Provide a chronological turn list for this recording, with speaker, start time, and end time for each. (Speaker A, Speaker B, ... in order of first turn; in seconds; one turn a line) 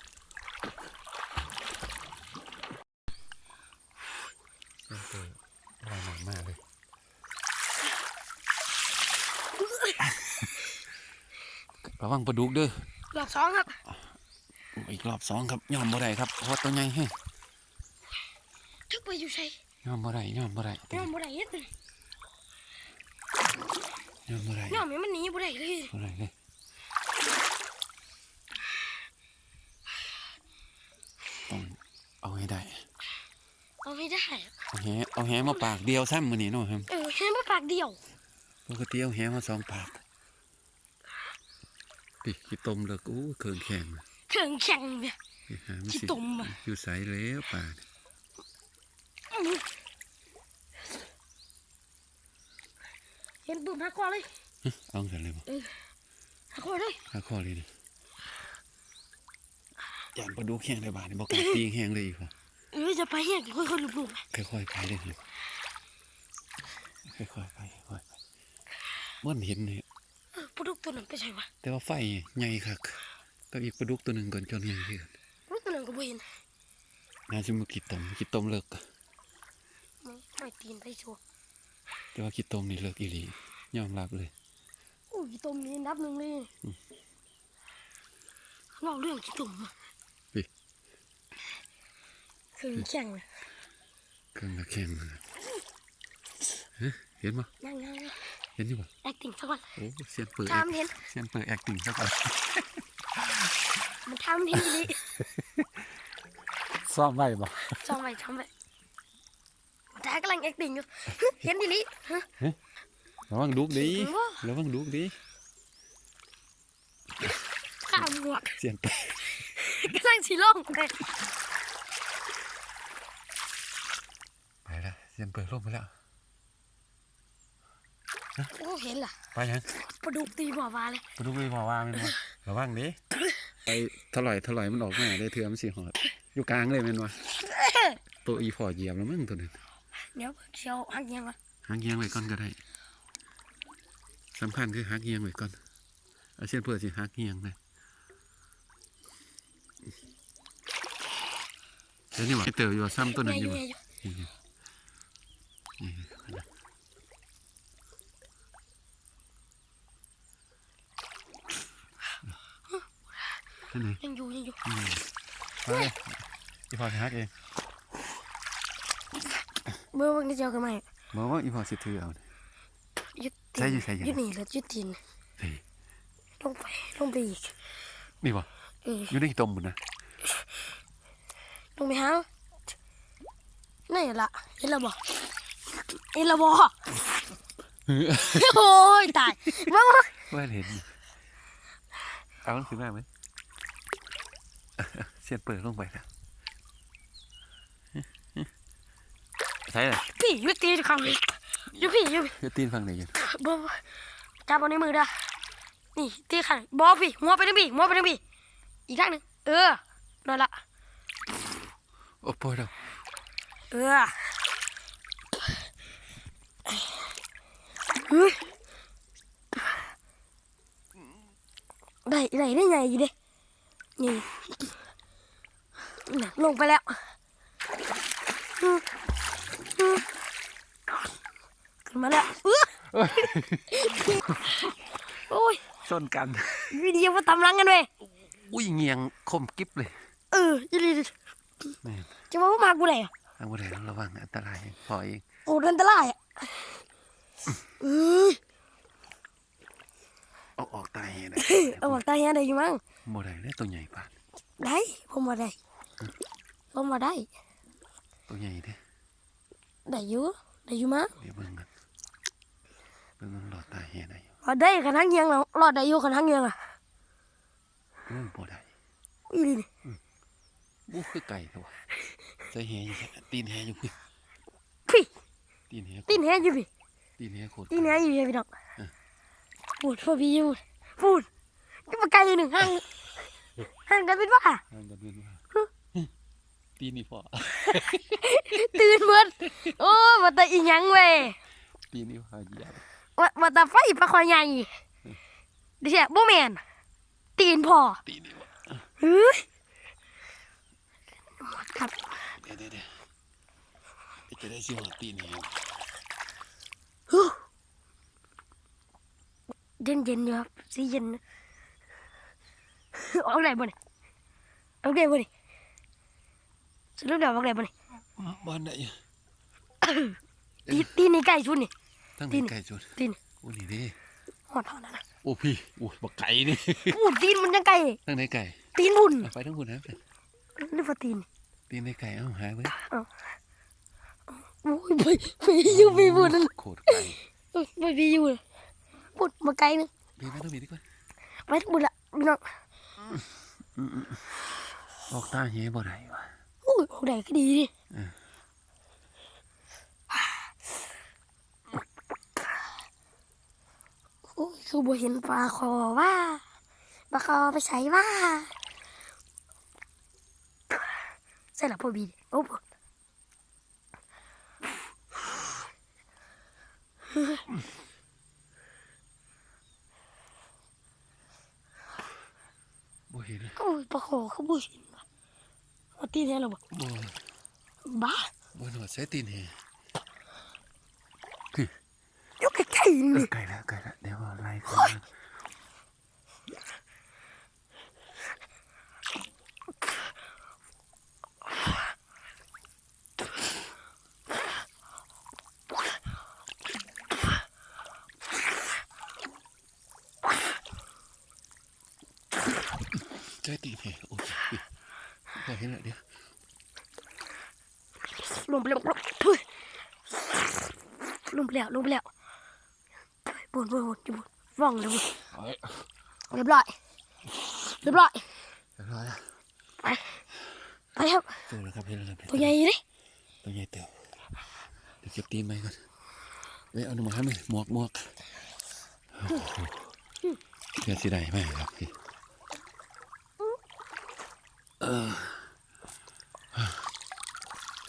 Speaker A: 4.9-6.6
Speaker B: 9.6-10.0
Speaker A: 10.0-10.4
Speaker A: 11.8-12.9
Speaker B: 13.1-13.8
Speaker A: 14.8-17.1
Speaker B: 18.9-19.6
Speaker A: 19.8-21.1
Speaker B: 20.9-21.7
Speaker A: 24.3-24.8
Speaker B: 24.7-25.9
Speaker A: 25.9-26.3
Speaker A: 31.5-32.8
Speaker B: 33.8-34.5
Speaker A: 34.7-36.9
Speaker B: 36.9-38.0
Speaker A: 38.7-40.0
Speaker A: 42.2-44.0
Speaker B: 44.3-45.2
Speaker A: 45.5-47.8
Speaker B: 45.9-46.5
Speaker B: 49.3-49.6
Speaker B: 53.5-54.3
Speaker A: 54.6-55.4
Speaker B: 55.5-55.7
Speaker B: 56.5-57.0
Speaker A: 57.1-57.7
Speaker A: 60.1-62.3
Speaker B: 61.3-61.6
Speaker B: 62.7-64.2
Speaker A: 64.3-65.2
Speaker A: 67.0-68.0
Speaker A: 69.2-69.8
Speaker B: 70.3-71.5
Speaker A: 71.6-73.0
Speaker A: 73.5-75.1
Speaker B: 75.5-76.3
Speaker A: 77.3-78.8
Speaker B: 80.0-81.2
Speaker A: 82.1-84.3
Speaker B: 85.1-86.5
Speaker B: 88.8-89.7
Speaker B: 92.6-93.2
Speaker A: 94.3-95.3
Speaker A: 96.8-97.5
Speaker B: 97.6-98.2
Speaker A: 98.6-98.9
Speaker B: 99.0-99.7
Speaker A: 99.8-103.5
Speaker B: 100.5-101.0
Speaker B: 104.0-105.0
Speaker A: 104.5-105.7
Speaker A: 106.8-107.9
Speaker B: 107.8-108.5
Speaker B: 109.9-112.3
Speaker A: 113.3-115.2
Speaker B: 113.7-114.4
Speaker B: 117.8-118.6
Speaker A: 117.9-119.4
Speaker B: 119.4-121.1
Speaker A: 124.7-125.9
Speaker B: 128.5-129.2
Speaker A: 129.3-129.7
Speaker B: 129.7-131.1
Speaker A: 131.2-133.0
Speaker A: 133.7-137.2
Speaker B: 137.4-138.0
Speaker A: 138.2-139.6
Speaker B: 140.1-141.3
Speaker A: 141.7-142.6
Speaker A: 144.3-145.6
Speaker A: 146.4-147.6
Speaker A: 152.1-154.3
Speaker B: 153.0-153.8
Speaker A: 155.8-156.4
Speaker A: 163.7-164.0
Speaker B: 164.0-164.6
Speaker A: 164.7-165.1
Speaker A: 165.6-167.3
Speaker B: 169.9-170.8
Speaker A: 171.1-172.2
Speaker B: 173.2-175.0
Speaker A: 173.6-174.2
Speaker B: 176.4-177.5
Speaker A: 178.2-178.5
Speaker B: 178.8-179.1
Speaker A: 179.1-179.8
Speaker B: 181.8-182.2
Speaker B: 183.9-185.1
Speaker B: 185.7-186.9
Speaker A: 187.9-188.5
Speaker B: 188.2-190.2
Speaker A: 190.3-190.9
Speaker A: 192.4-193.1
Speaker A: 194.8-196.1
Speaker A: 198.0-198.4
Speaker A: 199.7-200.1
Speaker B: 200.1-202.3
Speaker A: 202.3-203.2
Speaker B: 203.1-203.8
Speaker B: 204.4-205.3
Speaker B: 205.9-208.2
Speaker B: 208.9-210.5
Speaker A: 212.2-212.7
Speaker B: 213.7-214.3
Speaker B: 216.7-217.1
Speaker B: 218.1-218.5
Speaker B: 222.1-223.1
Speaker B: 224.0-224.7
Speaker B: 226.1-227.0
Speaker B: 231.9-232.8
Speaker A: 232.9-234.4
Speaker B: 233.8-234.6
Speaker B: 235.2-235.6
Speaker A: 235.8-236.8
Speaker B: 236.7-237.9
Speaker A: 238.3-239.9
Speaker B: 240.3-241.1
Speaker A: 241.8-242.1
Speaker B: 242.3-243.1
Speaker A: 243.4-245.2
Speaker B: 245.4-246.8
Speaker B: 247.8-248.4
Speaker A: 250.6-252.0
Speaker B: 251.4-252.8
Speaker A: 253.1-254.1
Speaker B: 254.6-255.6
Speaker B: 256.7-257.3
Speaker A: 258.3-258.8
Speaker B: 259.9-261.1
Speaker A: 261.2-261.7
Speaker A: 263.2-264.3
Speaker B: 264.4-266.7
Speaker A: 268.1-268.7
Speaker B: 269.3-269.7
Speaker A: 270.9-271.8
Speaker A: 272.5-273.9
Speaker A: 275.7-276.3
Speaker B: 276.1-276.7
Speaker A: 277.2-278.0
Speaker B: 277.7-278.5
Speaker B: 279.8-281.3
Speaker B: 281.9-282.8
Speaker B: 283.9-284.6
Speaker A: 284.7-285.4
Speaker A: 286.8-288.6
Speaker B: 288.1-291.4
Speaker A: 291.9-292.8
Speaker B: 293.2-294.7
Speaker B: 295.8-296.6
Speaker B: 297.4-298.0
Speaker A: 298.1-298.6
Speaker B: 299.0-299.4
Speaker B: 301.4-302.3
Speaker A: 302.3-302.9
Speaker A: 304.3-305.6
Speaker B: 307.1-307.4
Speaker B: 309.8-311.2
Speaker B: 312.9-313.7
Speaker B: 314.8-315.3
Speaker B: 317.0-317.7
Speaker A: 318.2-318.9
Speaker B: 319.8-320.2
Speaker B: 320.7-321.7
Speaker A: 322.2-323.9
Speaker B: 322.3-323.2
Speaker B: 324.5-325.0
Speaker A: 325.2-327.0
Speaker B: 326.7-328.0
Speaker A: 328.1-328.6
Speaker B: 328.8-329.3
Speaker A: 329.2-330.0
Speaker B: 330.6-331.2
Speaker A: 331.7-332.7
Speaker B: 332.7-333.1
Speaker B: 334.4-338.4
Speaker A: 335.6-337.2
Speaker B: 339.1-339.9
Speaker A: 340.2-340.8
Speaker B: 341.5-342.4
Speaker A: 343.8-344.3
Speaker A: 345.1-346.3
Speaker B: 346.6-347.7
Speaker B: 350.1-350.4
Speaker B: 354.3-356.4
Speaker B: 357.1-358.5
Speaker B: 361.6-362.6
Speaker B: 367.1-367.4
Speaker A: 373.1-373.6
Speaker B: 373.6-375.0
Speaker B: 376.0-376.6
Speaker A: 376.7-377.2
Speaker B: 377.8-378.3
Speaker A: 378.5-379.5
Speaker B: 382.4-383.3
Speaker A: 383.1-385.1
Speaker A: 403.1-404.6
Speaker A: 405.3-406.0
Speaker B: 408.2-409.5
Speaker B: 410.2-412.1
Speaker B: 413.2-415.2
Speaker A: 415.3-415.9
Speaker B: 416.3-416.7
Speaker B: 417.8-418.3
Speaker A: 418.8-419.2
Speaker B: 419.8-420.2
Speaker B: 420.9-421.4
Speaker A: 421.5-422.6
Speaker B: 422.3-422.8
Speaker A: 423.4-423.9
Speaker A: 425.0-425.9
Speaker A: 426.7-428.1
Speaker A: 429.1-429.9
Speaker A: 430.7-431.9
Speaker A: 434.8-435.5